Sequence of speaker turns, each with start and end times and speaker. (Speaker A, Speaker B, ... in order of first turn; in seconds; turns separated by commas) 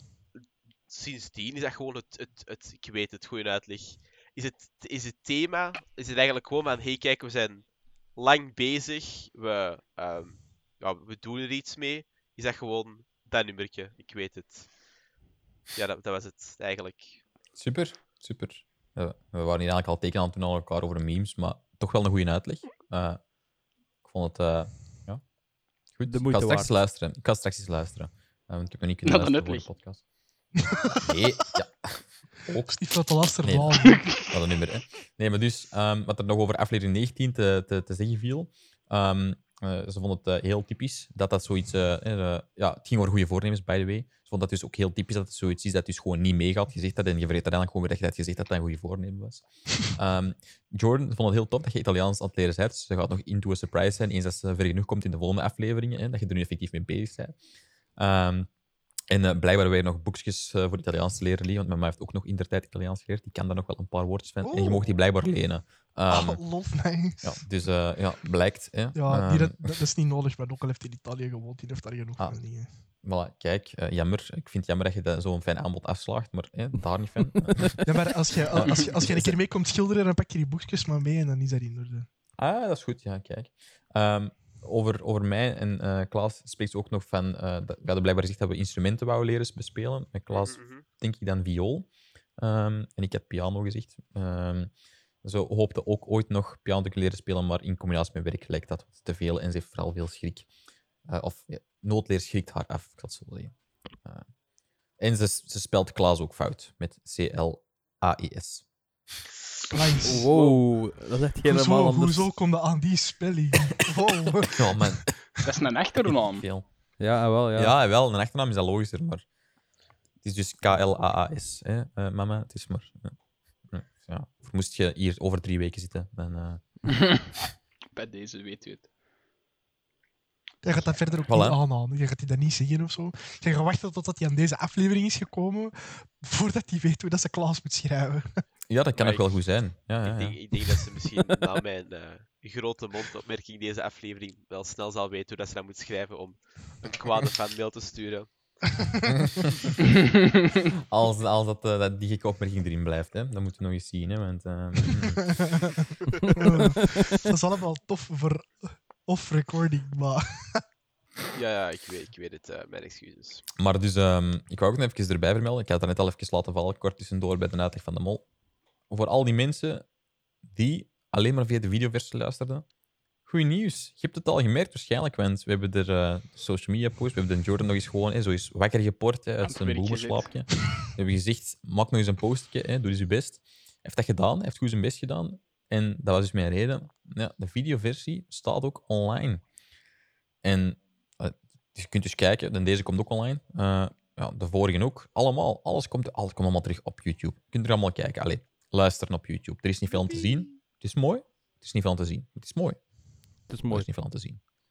Speaker A: 0.9-14.7, Speaker A: 15.7-17.2, Speaker B: 17.6-23.2, Speaker B: 24.0-25.2, Speaker B: 25.9-30.0, Speaker C: 26.1-26.8, Speaker D: 29.0-29.7, Speaker B: 31.0-57.4, Speaker E: 32.7-34.2, Speaker B: 58.0-58.5, Speaker B: 59.1-66.5, Speaker E: 64.4-64.9, Speaker E: 66.1-67.5, Speaker B: 67.2-69.7, Speaker E: 68.9-72.7, Speaker B: 72.2-77.8, Speaker E: 77.8-82.1, Speaker B: 78.5-79.4, Speaker B: 82.4-94.7, Speaker A: 90.3-90.8, Speaker B: 95.2-100.5, Speaker B: 101.0-104.3, Speaker B: 105.0-108.7, Speaker E: 109.7-110.3, Speaker C: 110.0-112.3, Speaker E: 111.4-115.6, Speaker B: 114.5-115.3, Speaker D: 115.4-116.5, Speaker B: 116.0-116.7, Speaker C: 117.0-117.8, Speaker B: 117.5-119.2, Speaker B: 120.2-123.2, Speaker B: 123.7-127.1, Speaker D: 127.9-128.9, Speaker E: 130.6-138.4, Speaker D: 130.7-131.3, Speaker B: 131.3-131.6, Speaker B: 138.7-140.4, Speaker A: 138.9-139.3, Speaker A: 140.0-148.3, Speaker B: 149.1-149.4, Speaker B: 150.9-155.4, Speaker E: 156.3-160.6, Speaker A: 161.3-163.4, Speaker B: 163.6-168.3, Speaker B: 168.9-169.9, Speaker B: 170.5-172.7, Speaker B: 173.3-189.4, Speaker D: 179.4-180.3, Speaker B: 190.4-202.8, Speaker B: 203.4-204.4, Speaker C: 203.5-203.9